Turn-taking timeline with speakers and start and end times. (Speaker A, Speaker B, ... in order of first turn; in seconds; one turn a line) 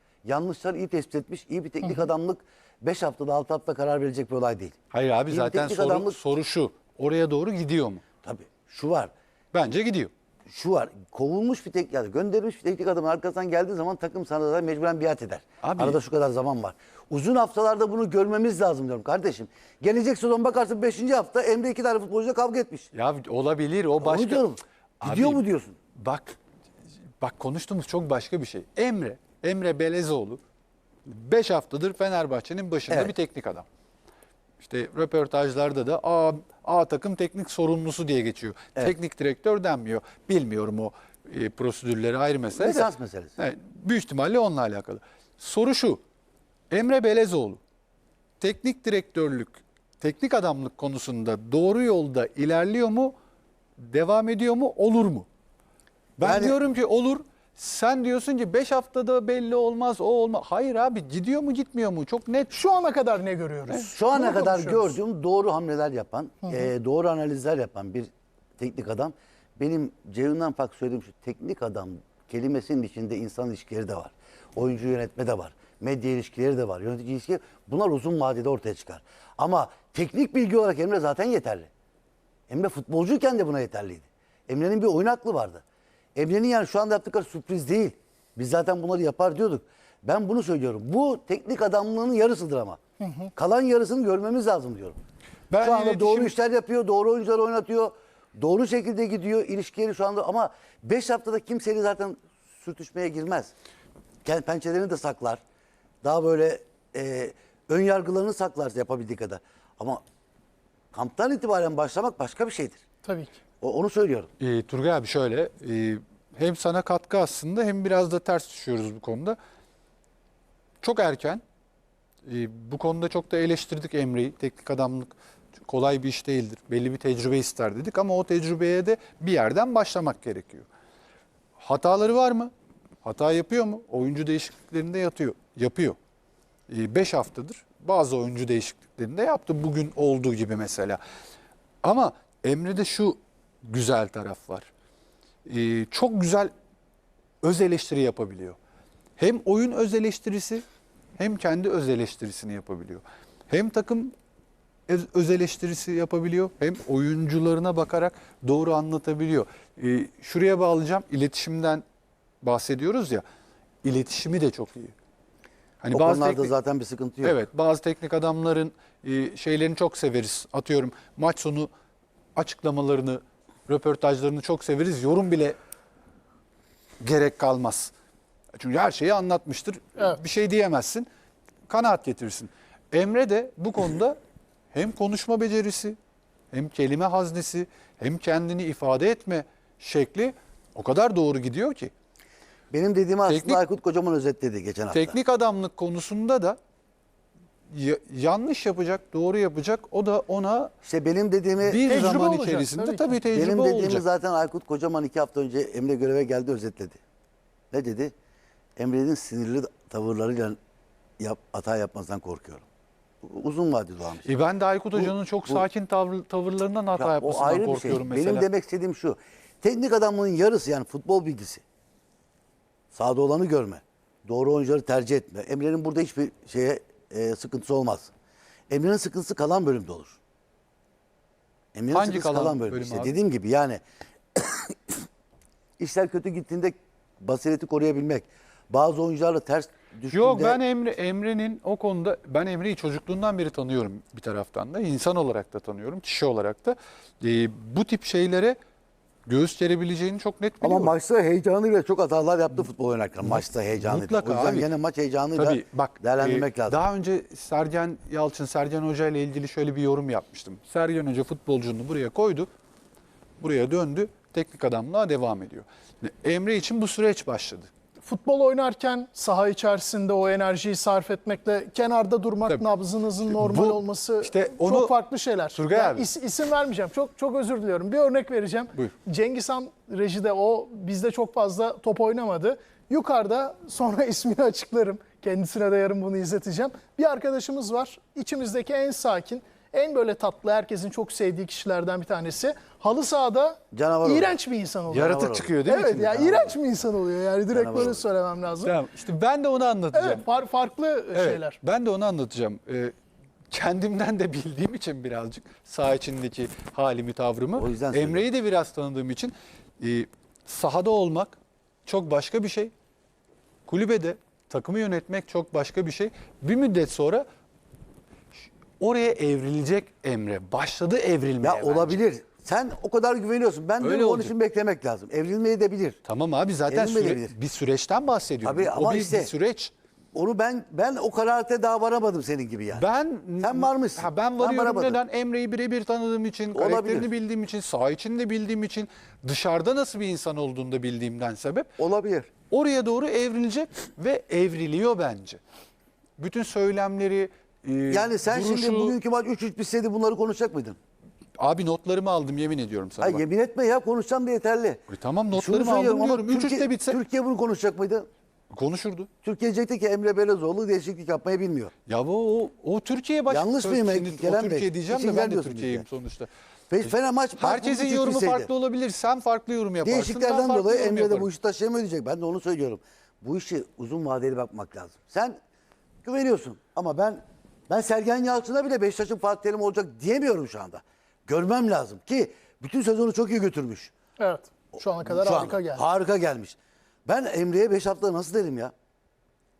Speaker A: 0.2-4.8
Speaker B: 4.9-8.0
Speaker A: 5.3-6.2
Speaker A: 8.2-9.1
Speaker B: 9.5-10.1
Speaker A: 10.5-22.9
Speaker B: 15.6-16.0
Speaker B: 22.9-24.4
Speaker A: 24.0-25.8
Speaker B: 25.0-25.4
Speaker B: 25.9-26.4
Speaker B: 27.2-30.4
Speaker B: 31.0-33.6
Speaker B: 34.6-46.0
Speaker A: 42.5-43.3
Speaker B: 46.7-47.6
Speaker B: 48.4-53.1
Speaker B: 53.8-55.3
Speaker B: 56.2-62.6
Speaker A: 56.2-56.6
Speaker C: 62.5-65.0
Speaker B: 63.7-63.9
Speaker A: 63.9-81.7
Speaker C: 66.4-66.7
Speaker A: 82.5-85.6
Speaker A: 86.2-92.8
Speaker C: 93.0-93.3
Speaker A: 93.3-95.0
Speaker B: 95.5-96.3
Speaker A: 95.6-103.5
Speaker A: 104.2-105.4
Speaker A: 106.0-110.0
Speaker A: 110.9-112.8
Speaker C: 113.0-113.4
Speaker A: 113.6-114.3
Speaker B: 114.4-119.4
Speaker B: 120.8-121.4
Speaker B: 122.2-130.7
Speaker B: 131.6-132.5
Speaker B: 133.0-136.0
Speaker B: 136.7-141.0
Speaker B: 141.8-144.7
Speaker B: 145.4-146.5
Speaker B: 147.4-148.6
Speaker B: 149.2-150.6
Speaker B: 151.2-154.1
Speaker B: 154.9-161.8
Speaker B: 162.4-163.2
Speaker B: 163.8-164.9
Speaker B: 165.8-166.5
Speaker A: 165.9-167.4
Speaker B: 167.2-171.7
Speaker B: 172.3-175.6
Speaker B: 177.0-177.9
Speaker B: 178.5-181.1
Speaker B: 181.7-184.2
Speaker B: 184.7-186.0
Speaker B: 186.5-191.9
Speaker A: 192.7-195.2
Speaker B: 193.3-193.6
Speaker B: 194.9-196.6
Speaker B: 197.7-200.7
Speaker A: 200.8-201.8
Speaker B: 201.6-204.0
Speaker C: 201.8-203.1
Speaker A: 203.3-207.0
Speaker A: 207.7-208.1
Speaker A: 208.8-210.6
Speaker A: 211.2-212.6
Speaker A: 213.2-214.2
Speaker B: 214.2-218.5
Speaker A: 214.9-215.6
Speaker A: 216.9-221.6
Speaker A: 222.9-228.1
Speaker A: 228.7-230.2
Speaker A: 231.7-233.8
Speaker B: 231.9-233.1
Speaker A: 234.3-235.0
Speaker A: 235.8-240.6
Speaker B: 240.1-248.6
Speaker B: 249.2-250.9
Speaker A: 250.6-256.8
Speaker B: 253.2-254.7
Speaker B: 255.3-262.5
Speaker B: 263.4-267.7
Speaker C: 268.0-298.8
Speaker B: 273.2-274.9
Speaker B: 275.5-276.1
Speaker A: 293.7-294.4
Speaker A: 294.9-295.5
Speaker B: 294.9-296.6
Speaker A: 297.5-298.0
Speaker B: 298.6-300.3
Speaker C: 299.9-301.6
Speaker B: 301.1-302.9
Speaker B: 303.5-312.7
Speaker A: 307.5-308.2
Speaker B: 313.7-317.2
Speaker B: 318.8-322.0
Speaker A: 321.4-326.0
Speaker B: 323.8-324.3
Speaker B: 326.0-329.7
Speaker A: 326.7-327.3
Speaker A: 328.4-329.3
Speaker A: 330.1-332.8
Speaker B: 332.7-341.7
Speaker A: 333.4-335.0
Speaker A: 336.5-337.1
Speaker A: 341.8-342.3
Speaker B: 342.5-345.4
Speaker B: 346.2-348.9
Speaker A: 347.9-350.8
Speaker B: 351.4-353.2
Speaker A: 353.0-354.8
Speaker B: 354.9-357.0
Speaker A: 355.3-358.1
Speaker B: 358.5-359.1
Speaker A: 359.2-361.7
Speaker B: 361.9-366.3
Speaker A: 363.3-365.8
Speaker A: 366.7-368.5
Speaker B: 366.8-371.3
Speaker A: 369.8-375.4
Speaker A: 376.0-383.9
Speaker C: 384.2-385.8
Speaker A: 385.0-388.7